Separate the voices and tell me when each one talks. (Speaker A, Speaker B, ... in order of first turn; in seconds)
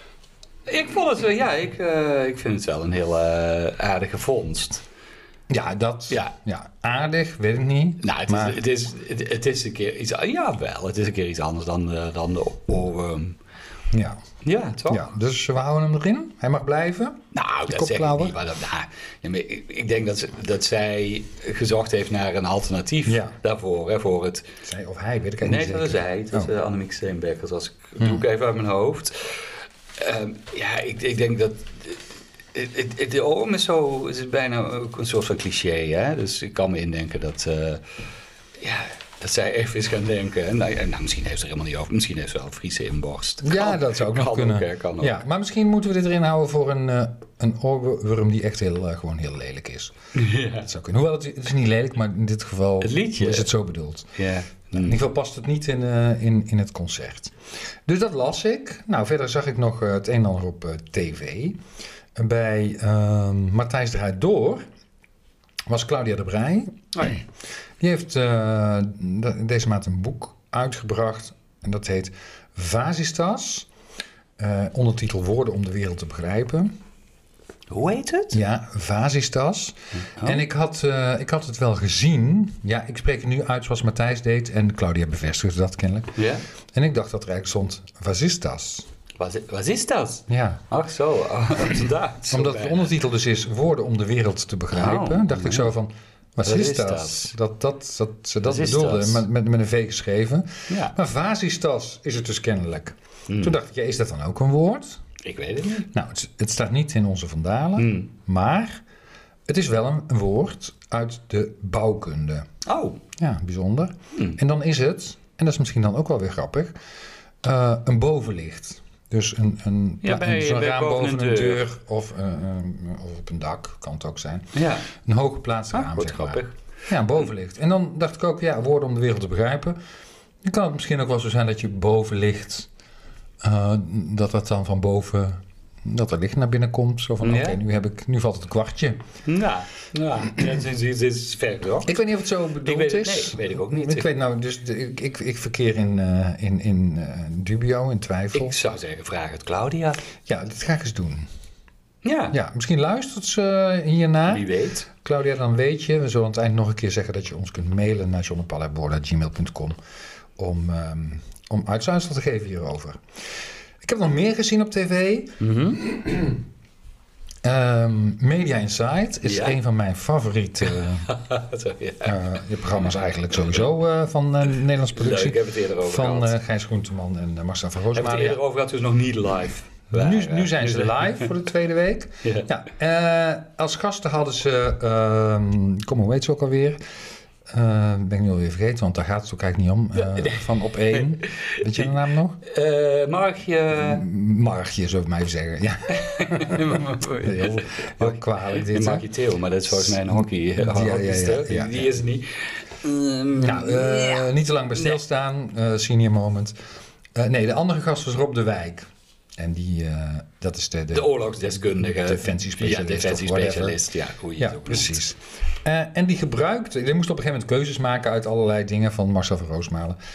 Speaker A: 0.7-4.8, 8.0-13.4, 14.4-15.1, 17.3-24.5, 25.4-32.0, 32.5-37.8, 38.6-45.2, 50.1-50.7, 52.8-53.5, 54.1-55.0, 77.7-78.4, 79.9-80.4, 86.2-86.4, 89.2-92.9, 94.7-95.7, 96.4-97.3, 98.4-99.2, 100.7-101.0, 103.3-103.5, 105.2-105.9, 107.8-108.1, 112.6-113.0, 120.0-121.6, 124.5-124.9, 125.7-126.5, 137.2-137.6, 139.2-142.0, 142.6-144.1, 148.3-150.0, 152.0-152.3, 154.3-154.9, 165.4-165.8, 169.2-169.6, 171.0-172.2, 174.9-176.3, 177.9-181.3, 182.2-182.5, 189.9-194.0, 195.9-204.9, 210.9-215.0
Speaker B: 5.5-8.6, 13.9-14.2, 14.9-18.4, 23.1-23.3, 24.6-26.5, 43.4-49.9, 50.6-54.1, 54.7-57.3, 57.9-61.6, 62.1-64.6, 65.7-67.2, 67.8-73.7, 74.4-76.7, 78.3-86.2, 86.7-88.9, 90.3-90.6, 92.3-105.0, 105.9-108.8, 109.5-112.5, 113.2-116.7, 117.4-129.8, 130.4-132.7, 133.4-139.0, 141.8-148.6, 150.2-151.3, 152.3-159.7, 160.4-163.0, 163.8-166.4, 167.4-171.1, 172.0-178.4, 179.9-186.8, 187.5-192.4, 193.7-199.0, 199.7-201.9, 203.3-206.5, 207.1-211.1, 211.8-213.8, 214.4-220.0